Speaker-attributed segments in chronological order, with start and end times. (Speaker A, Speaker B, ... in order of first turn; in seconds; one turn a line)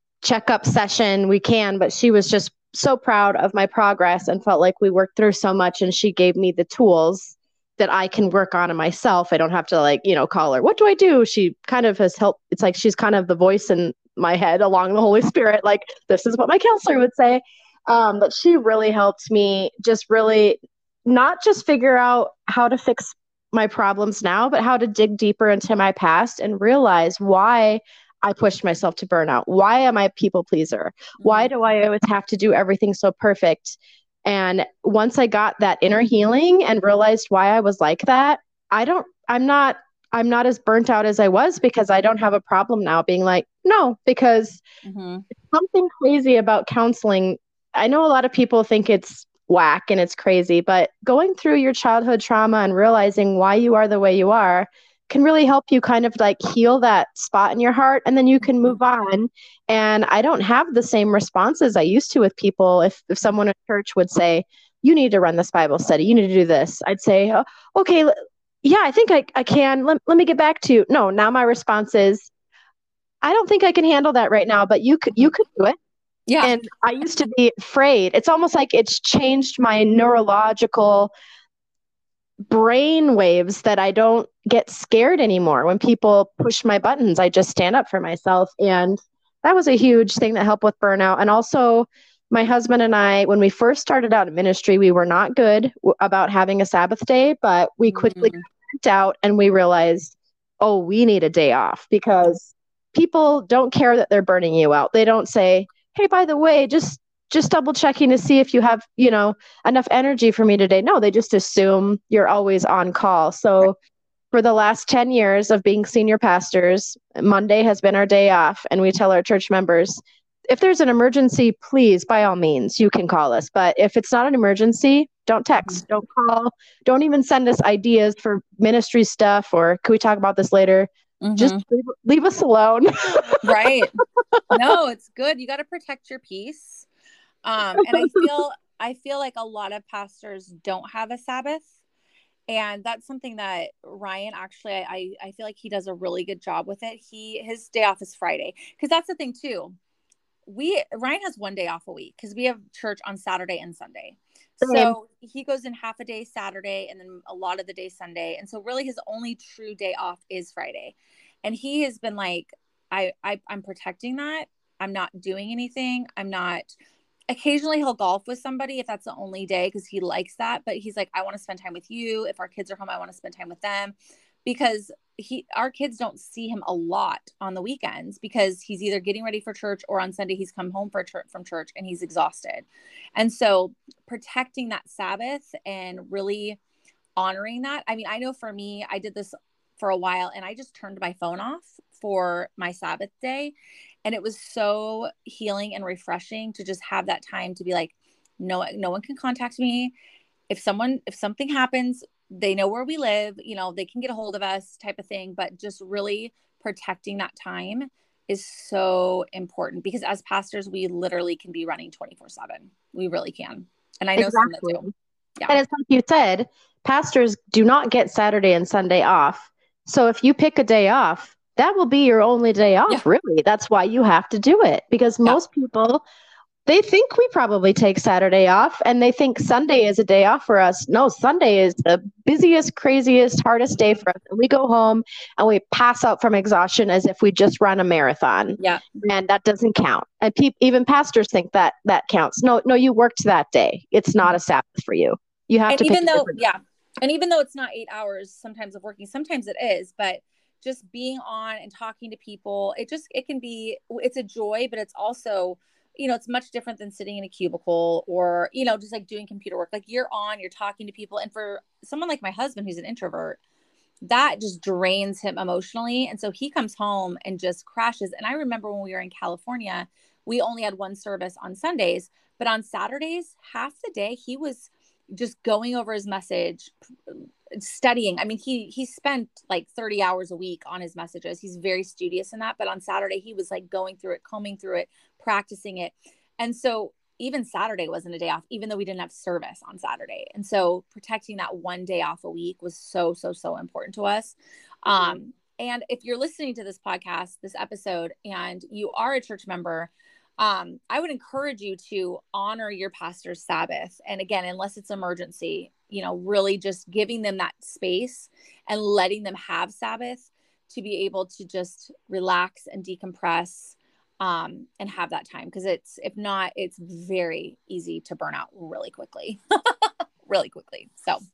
Speaker A: 0.2-44.6
Speaker B: 31.2-31.5
Speaker B: 44.8-45.3
Speaker A: 45.4-68.1
Speaker A: 68.6-72.3
Speaker A: 73.2-75.8
Speaker B: 76.3-76.6
Speaker A: 76.4-81.1
Speaker A: 82.5-113.8
Speaker B: 97.9-98.4
Speaker A: 114.3-133.4
Speaker B: 131.2-131.6
Speaker B: 133.4-136.9
Speaker B: 137.4-141.7
Speaker A: 137.8-138.2
Speaker B: 142.5-149.8
Speaker B: 150.5-166.7
Speaker A: 154.6-154.9
Speaker B: 167.3-186.6
Speaker B: 187.2-193.5
Speaker B: 194.1-199.9
Speaker B: 200.5-214.8
Speaker A: 214.2-214.9
Speaker A: 215.5-226.0
Speaker A: 226.7-246.4
Speaker B: 245.7-263.4
Speaker B: 264.0-321.2